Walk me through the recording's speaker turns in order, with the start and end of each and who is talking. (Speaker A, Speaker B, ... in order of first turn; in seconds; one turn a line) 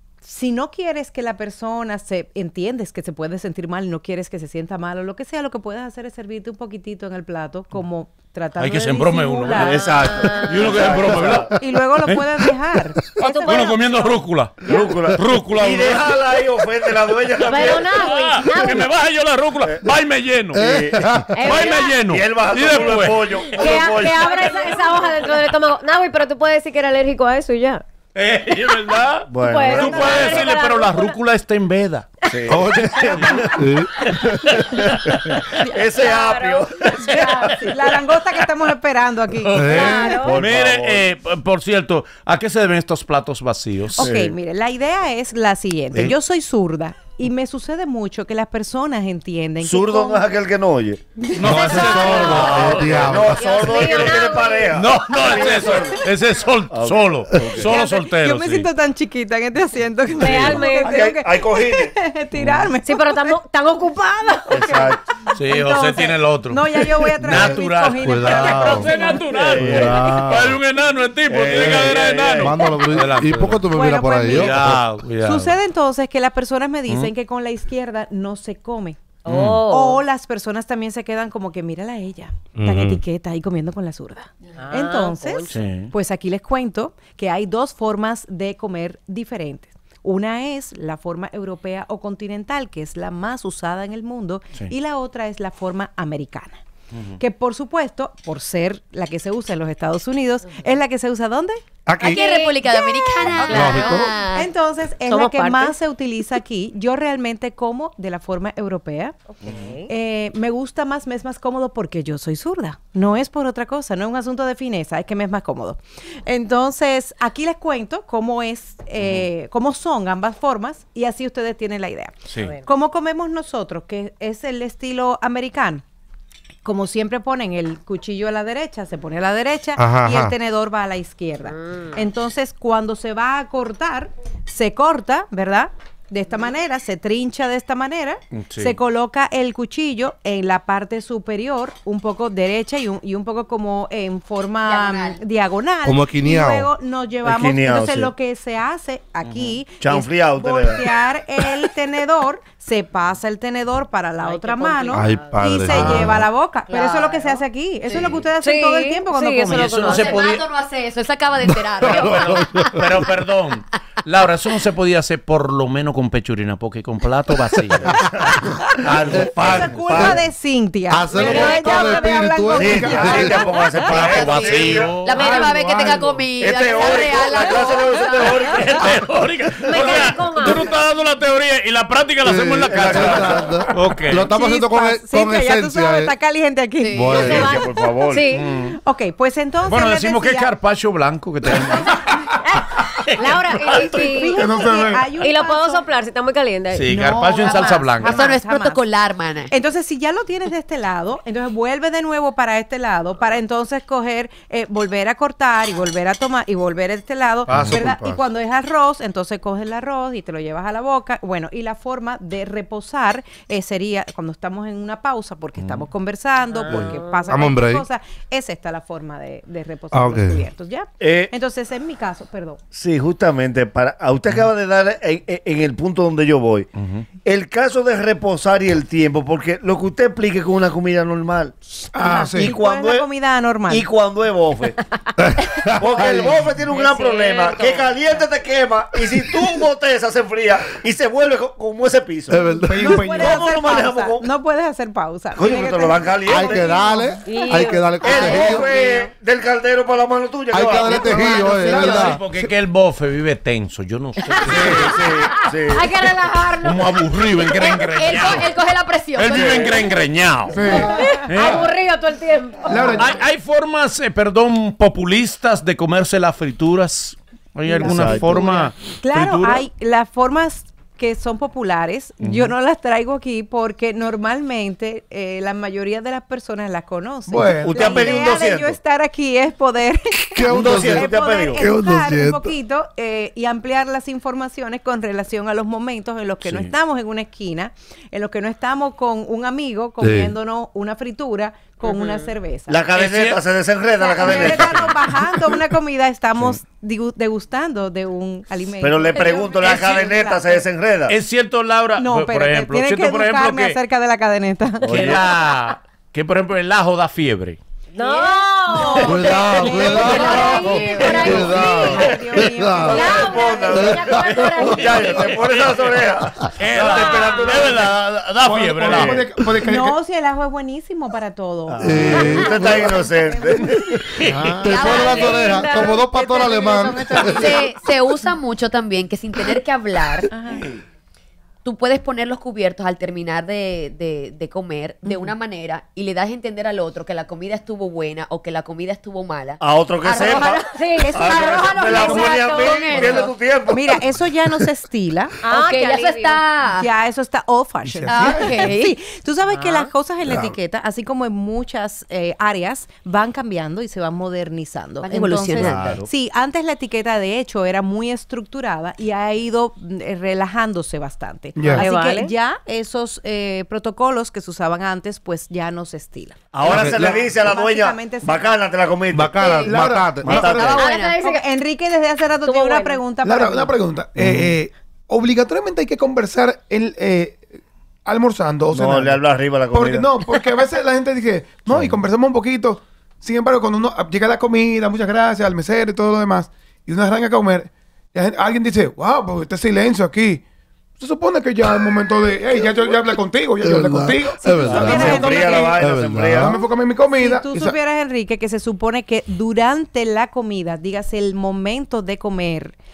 Speaker A: 0.2-9.8
Speaker B: 8.6-11.5
Speaker C: 9.5-11.5
Speaker D: 9.9-10.7
Speaker A: 11.5-15.0
Speaker B: 12.1-12.4
Speaker B: 13.2-14.6
Speaker D: 13.2-13.9
Speaker C: 14.6-18.8
Speaker B: 15.1-16.1
Speaker D: 17.4-18.9
Speaker B: 17.6-20.6
Speaker C: 19.6-19.9
Speaker E: 20.5-21.4
Speaker C: 20.5-24.2
Speaker D: 21.3-22.0
Speaker B: 21.4-23.7
Speaker D: 23.6-27.8
Speaker A: 24.2-25.1
Speaker B: 28.1-33.5
Speaker C: 29.3-30.5
Speaker D: 29.4-31.2
Speaker A: 29.8-30.6
Speaker E: 32.5-33.9
Speaker C: 33.3-37.7
Speaker B: 34.0-35.4
Speaker D: 36.0-36.6
Speaker A: 37.0-39.7
Speaker B: 37.0-37.3
Speaker B: 39.5-44.1
Speaker E: 39.5-40.1
Speaker C: 39.7-41.1
Speaker D: 39.7-40.4
Speaker C: 44.0-44.4
Speaker A: 44.0-50.3
Speaker C: 49.6-51.0
Speaker A: 51.2-52.5
Speaker B: 51.4-53.4
Speaker E: 51.4-53.5
Speaker C: 51.8-56.0
Speaker D: 53.4-54.8
Speaker B: 54.7-58.7
Speaker C: 56.7-57.8
Speaker A: 57.6-63.3
Speaker D: 60.2-61.0
Speaker B: 60.2-60.5
Speaker C: 60.3-62.7
Speaker D: 62.8-64.8
Speaker C: 64.5-65.0
Speaker A: 64.6-69.2
Speaker B: 65.3-73.7
Speaker E: 67.3-68.9
Speaker C: 69.2-70.5
Speaker E: 69.6-70.5
Speaker C: 71.3-72.6
Speaker E: 71.6-74.8
Speaker A: 73.7-74.6
Speaker B: 74.3-75.6
Speaker A: 75.2-79.0
Speaker D: 79.2-80.0
Speaker B: 79.3-79.6
Speaker A: 79.7-96.6
Speaker E: 82.5-83.0
Speaker D: 84.6-85.5
Speaker B: 85.5-85.9
Speaker A: 97.2-101.6
Speaker E: 101.9-102.2
Speaker D: 102.0-102.7
Speaker F: 102.1-104.5
Speaker A: 102.6-109.2
Speaker E: 103.2-104.1
Speaker D: 105.1-105.8
Speaker D: 109.4-109.9
Speaker A: 109.9-125.8
Speaker B: 119.0-119.3
Speaker B: 122.3-122.6
Speaker D: 122.4-122.7
Speaker A: 126.6-159.8
Speaker E: 129.8-130.3
Speaker D: 131.5-132.0
Speaker B: 138.3-138.8
Speaker F: 144.6-145.2
Speaker E: 145.8-146.7
Speaker C: 147.2-148.1
Speaker C: 149.8-150.8
Speaker D: 154.2-155.6
Speaker E: 154.9-156.2
Speaker F: 156.7-158.2
Speaker D: 158.4-160.3
Speaker B: 159.5-160.5
Speaker F: 159.8-162.7
Speaker E: 161.5-163.1
Speaker B: 161.8-167.9
Speaker C: 167.8-170.2
Speaker B: 168.8-169.4
Speaker A: 169.4-173.9
Speaker E: 169.9-170.2
Speaker E: 170.9-173.4
Speaker G: 171.1-171.9
Speaker F: 171.3-171.7
Speaker C: 172.6-179.0
Speaker G: 172.6-174.1
Speaker B: 173.9-175.6
Speaker F: 173.9-178.6
Speaker G: 175.6-176.2
Speaker B: 178.4-184.3
Speaker D: 179.6-180.7
Speaker C: 179.7-180.7
Speaker E: 182.2-186.1
Speaker C: 182.7-183.7
Speaker A: 184.2-187.5
Speaker F: 186.8-187.2
Speaker E: 186.9-187.6
Speaker C: 187.2-188.2
Speaker D: 187.2-188.5
Speaker B: 188.3-188.8
Speaker A: 188.8-190.5
Speaker B: 189.7-192.2
Speaker D: 192.4-194.6
Speaker B: 192.8-194.1
Speaker F: 193.2-194.1
Speaker A: 194.0-195.9
Speaker G: 194.3-195.3
Speaker D: 195.2-197.4
Speaker B: 196.7-198.2
Speaker A: 196.9-198.9
Speaker F: 197.5-199.5
Speaker A: 199.5-222.6
Speaker E: 207.5-208.2
Speaker B: 215.6-215.9
Speaker D: 216.5-217.3
Speaker E: 216.7-217.8
Speaker E: 219.9-220.4
Speaker C: 221.0-221.3
Speaker C: 222.7-226.7
Speaker B: 226.8-227.1
Speaker C: 227.2-231.6
Speaker G: 231.9-232.6
Speaker A: 232.0-233.9
Speaker C: 232.4-233.1
Speaker C: 233.7-234.8
Speaker E: 235.2-236.5
Speaker C: 235.8-242.5
Speaker D: 236.7-238.2
Speaker E: 242.3-243.1
Speaker A: 242.5-247.2
Speaker G: 242.6-243.4
Speaker C: 243.2-244.3
Speaker C: 245.4-246.8
Speaker E: 246.3-248.7
Speaker G: 246.8-247.2
Speaker D: 247.2-248.7
Speaker C: 248.0-251.4
Speaker E: 250.5-252.2
Speaker G: 250.7-252.5
Speaker B: 251.7-255.0
Speaker F: 254.3-254.9
Speaker D: 254.3-254.6
Speaker C: 254.5-255.8
Speaker D: 255.2-257.1
Speaker B: 256.6-258.6
Speaker F: 257.5-259.9
Speaker B: 259.1-260.7
Speaker C: 259.3-259.8
Speaker G: 260.5-261.0
Speaker D: 260.7-263.0
Speaker B: 261.2-261.7
Speaker G: 262.7-263.1
Speaker B: 263.0-269.7
Speaker A: 267.7-292.8
Speaker C: 267.8-268.5
Speaker B: 272.2-272.5
Speaker G: 277.3-278.2
Speaker C: 277.6-278.8
Speaker E: 280.3-282.5
Speaker C: 280.5-281.6
Speaker B: 286.4-286.7
Speaker E: 290.0-290.3
Speaker D: 291.8-292.3
Speaker C: 292.7-294.9
Speaker B: 292.9-293.4
Speaker A: 294.0-300.7
Speaker B: 294.2-294.9
Speaker C: 298.8-301.1
Speaker B: 299.6-300.1
Speaker B: 301.1-303.8
Speaker A: 302.0-304.9
Speaker B: 304.8-307.6
Speaker C: 304.8-305.2
Speaker A: 307.9-313.7
Speaker D: 307.9-311.8
Speaker E: 309.0-313.1
Speaker F: 310.0-311.6
Speaker B: 311.0-312.1
Speaker C: 312.7-318.3
Speaker D: 312.9-315.6
Speaker E: 313.7-314.9
Speaker B: 314.7-316.0
Speaker B: 316.6-319.2
Speaker D: 316.9-317.6
Speaker G: 318.4-320.0
Speaker C: 318.9-319.2
Speaker A: 319.7-324.0
Speaker C: 321.7-323.8
Speaker E: 321.8-322.9
Speaker B: 324.2-324.6
Speaker E: 324.2-327.5
Speaker F: 324.7-325.5
Speaker D: 324.7-326.1
Speaker C: 325.0-325.3
Speaker A: 325.8-327.9
Speaker F: 327.3-330.3
Speaker A: 330.3-330.7
Speaker F: 331.6-343.3
Speaker A: 335.0-335.3
Speaker C: 339.6-343.9
Speaker D: 340.7-341.2
Speaker A: 341.0-341.7
Speaker D: 341.9-343.3
Speaker A: 343.7-345.4
Speaker D: 345.4-346.4
Speaker F: 345.5-346.9
Speaker A: 346.8-368.6
Speaker G: 347.8-348.8
Speaker F: 348.1-349.0
Speaker D: 349.5-349.9
Speaker F: 355.0-356.0
Speaker C: 355.6-356.1
Speaker G: 361.6-361.9
Speaker D: 361.7-362.3
Speaker C: 366.5-369.4
Speaker G: 366.7-367.2
Speaker E: 366.7-367.2
Speaker E: 369.1-370.6
Speaker F: 369.4-371.2
Speaker G: 369.5-370.8
Speaker C: 370.2-370.8
Speaker D: 370.7-371.4
Speaker A: 371.2-373.7
Speaker D: 372.4-373.1
Speaker G: 373.2-377.4
Speaker G: 378.1-390.4
Speaker C: 378.7-380.1
Speaker C: 381.7-382.0
Speaker G: 391.0-395.8
Speaker E: 393.6-396.6
Speaker A: 394.4-395.7
Speaker C: 394.6-396.6
Speaker G: 396.4-397.8
Speaker A: 397.1-402.8